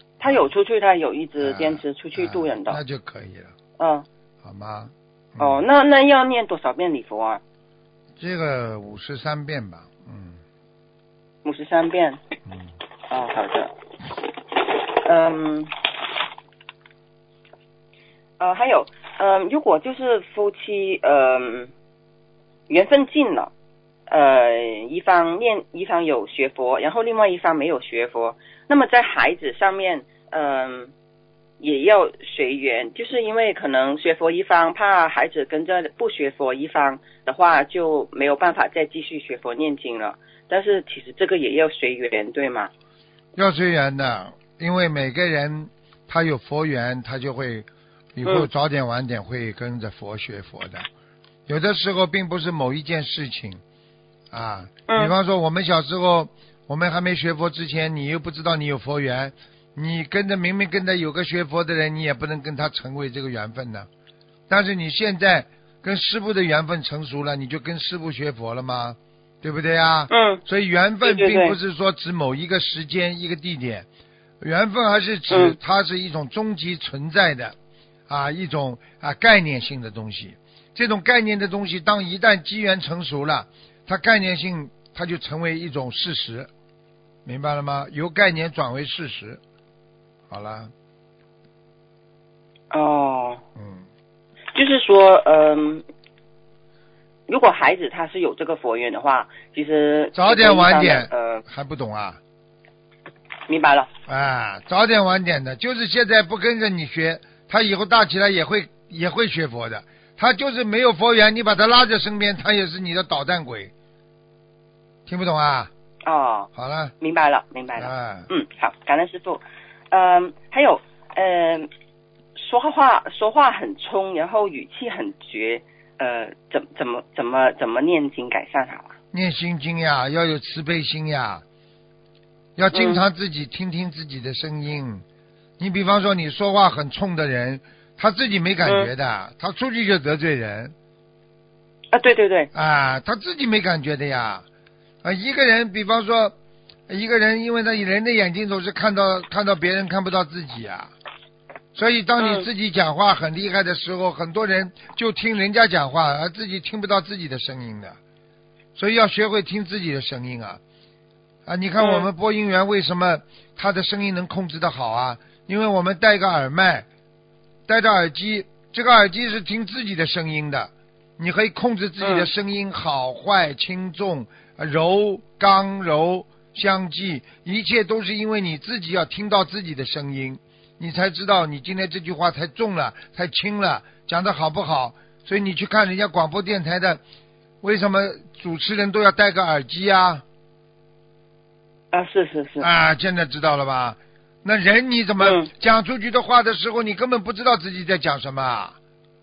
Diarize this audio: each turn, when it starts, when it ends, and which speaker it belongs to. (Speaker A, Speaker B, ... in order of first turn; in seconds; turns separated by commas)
Speaker A: 0.2-2.8, Speaker B: 1.4-3.5, Speaker A: 3.8-4.1, Speaker B: 4.4-5.6, Speaker A: 5.4-7.4, Speaker B: 8.2-10.4, Speaker A: 11.4-12.2, Speaker A: 13.1-13.7, Speaker A: 14.7-15.8, Speaker A: 18.4-21.7, Speaker A: 22.7-23.5, Speaker A: 24.1-30.9, Speaker A: 31.6-42.7, Speaker B: 43.4-50.9, Speaker B: 51.5-53.6, Speaker B: 54.3-63.9, Speaker A: 54.9-55.1, Speaker B: 64.5-73.9, Speaker A: 70.1-70.4, Speaker A: 71.0-71.6, Speaker B: 74.4-77.5, Speaker A: 75.3-75.6, Speaker B: 78.1-86.5, Speaker B: 87.2-89.4, Speaker B: 90.3-90.7, Speaker A: 92.7-93.4, Speaker B: 93.6-93.8, Speaker A: 94.5-95.8, Speaker A: 97.3-101.4, Speaker B: 100.2-102.2, Speaker A: 103.5-103.9, Speaker B: 104.1-113.7, Speaker B: 115.1-115.7, Speaker A: 116.0-116.5, Speaker B: 116.5-116.9, Speaker A: 117.0-121.7, Speaker B: 117.8-118.3, Speaker A: 122.4-128.9, Speaker B: 129.1-131.4, Speaker B: 132.6-135.0, Speaker A: 132.7-133.0, Speaker B: 135.6-140.7, Speaker A: 138.6-138.9, Speaker A: 141.9-142.5, Speaker B: 142.5-144.4, Speaker B: 145.0-146.3, Speaker B: 146.9-150.9, Speaker B: 151.7-158.0, Speaker A: 152.2-152.5, Speaker B: 158.8-160.6, Speaker B: 161.5-166.9, Speaker A: 161.8-162.1, Speaker B: 167.7-187.0, Speaker A: 172.0-172.3, Speaker B: 187.6-190.2, Speaker A: 191.9-192.7, Speaker B: 192.6-198.8, Speaker A: 195.2-195.5